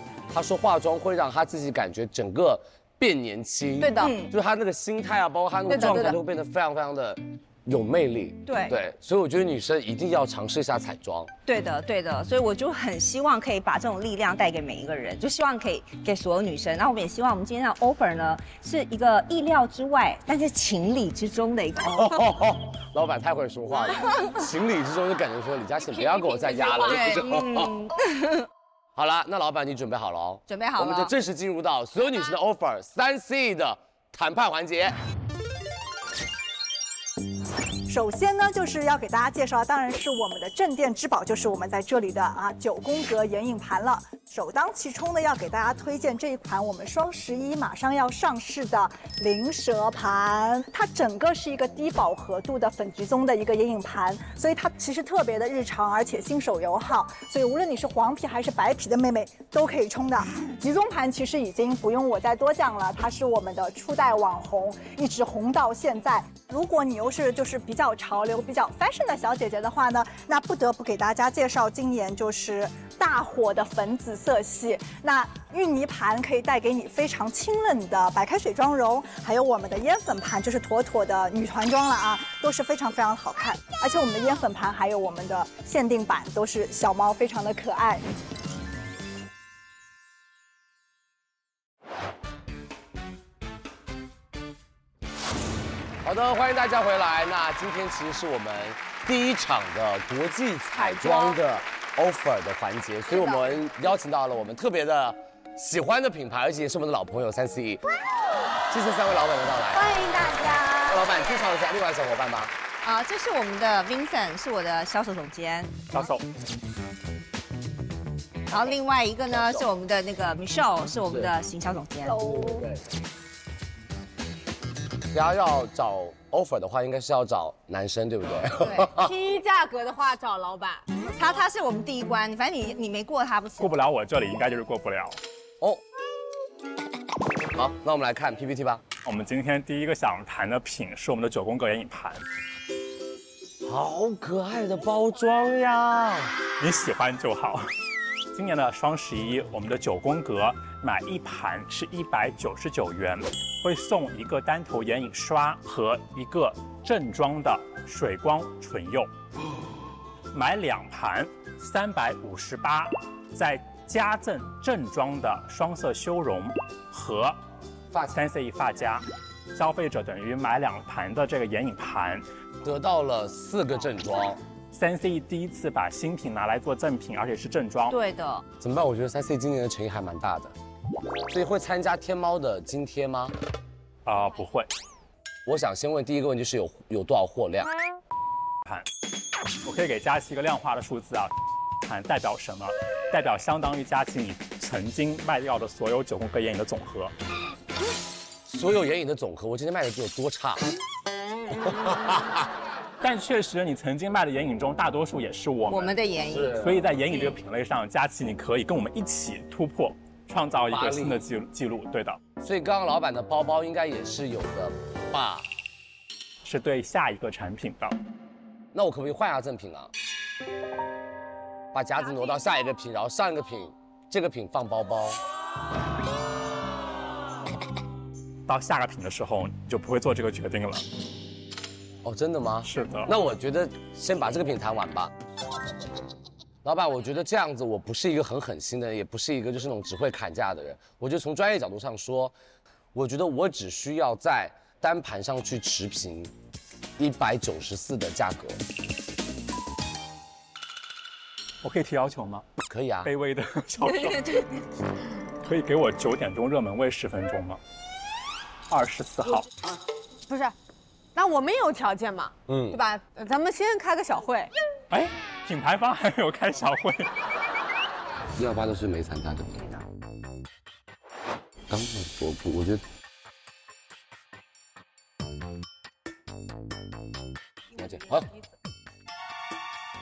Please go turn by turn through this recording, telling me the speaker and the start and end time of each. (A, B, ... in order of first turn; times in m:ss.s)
0:00.3-0:11.3 A
0:03.8-0:04.2 B
0:04.0-0:04.3 C
0:05.6-0:06.2 B
0:08.4-0:08.7 C
0:11.4-0:22.2 C
0:21.8-0:27.8 A
0:25.8-0:27.3 B
0:26.8-0:28.2 C
0:28.9-0:35.0 A
0:30.5-0:31.1 C
0:37.9-1:28.0 D
1:36.0-1:47.8 A
1:40.8-1:41.4 C
1:43.1-1:43.6 C
1:48.7-1:50.0 A
1:49.7-1:51.4 C
1:50.8-1:52.5 A
1:52.8-1:55.7 C
1:55.9-1:56.2 E
1:58.5-2:02.3 C
1:59.2-1:59.7 A
2:01.0-2:01.3 A
2:02.2-2:02.7 A
2:05.1-2:09.1 A
2:08.6-2:10.9 B
2:11.0-2:13.7 C
2:13.6-2:15.2 E
2:17.5-2:18.8 A
2:19.0-2:22.2 E
2:23.6-2:26.3 A
2:26.6-2:27.7 E
2:28.3-2:39.1 E
2:40.3-2:47.4 E
2:47.9-2:52.2 E
2:52.6-2:54.4 A
2:54.7-2:58.0 E
2:57.9-2:58.4 C
2:58.6-3:00.5 A
3:01.3-3:03.4 A
3:04.0-3:04.7 E
3:05.4-3:07.7 A
3:09.6-3:11.3 E
3:11.8-3:17.1 E
3:18.5-3:20.7 A
3:21.6-3:22.5 A
3:23.0-3:26.0 E
3:25.7-3:27.4 C
3:26.2-3:26.8 A
3:26.5-3:32.2 E
3:30.6-3:31.2 A
3:32.4-3:35.5 A
3:36.4-3:38.0 E
3:38.7-3:39.9 A
3:41.7-3:45.2 A
3:48.5-3:50.8 E
3:52.0-3:55.1 A
3:52.6-3:53.1 E
3:56.6-4:02.3 A
4:02.9-4:06.3 A
4:07.0-4:08.6 A
4:11.6-4:12.4 E
4:12.6-4:13.1 A
4:13.0-4:14.5 E
4:15.4-4:17.6 E
4:18.7-4:19.5 E
4:20.3-4:20.5 B
4:21.1-4:24.5 B
4:22.5-4:22.8 A
4:24.9-4:27.1 E
4:28.4-4:29.8 A
4:31.7-4:32.8 A
4:37.7-4:38.3 A